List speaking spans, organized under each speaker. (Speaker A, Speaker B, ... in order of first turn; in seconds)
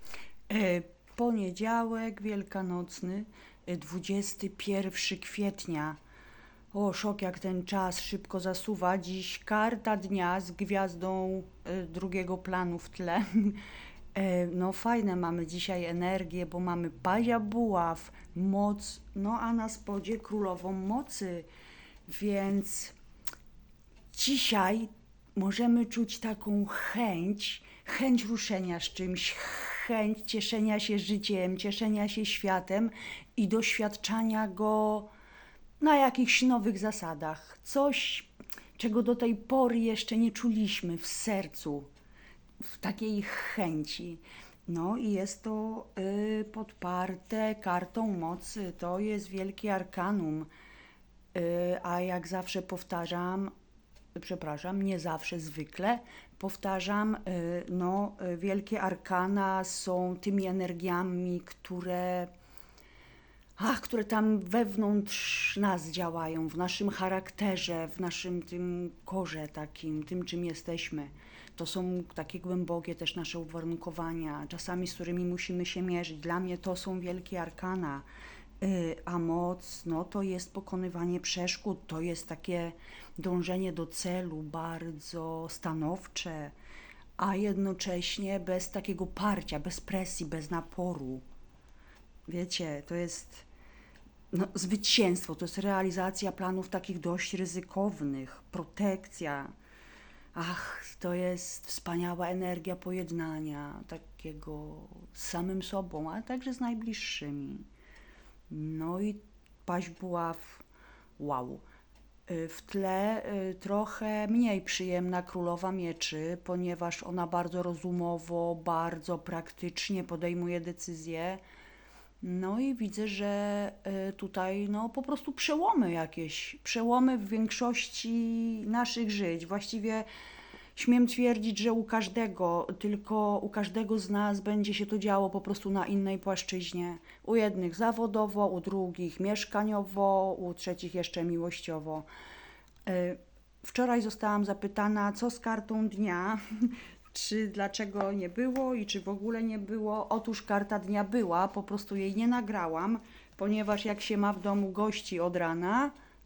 Speaker A: 0.5-6.0, 6.7-13.6, 14.1-21.5, 22.1-22.9, 24.1-35.1, 35.8-41.9, 42.6-50.5, 51.3-53.5, 54.1-62.3, 63.6-78.0, 78.6-86.5, 87.2-91.2, 92.3-93.5, 94.3-99.5, 100.3-107.7, 108.5-110.6, 111.2-111.6, 112.3-121.4, 122.2-130.1, 130.8-142.1, 142.9-155.9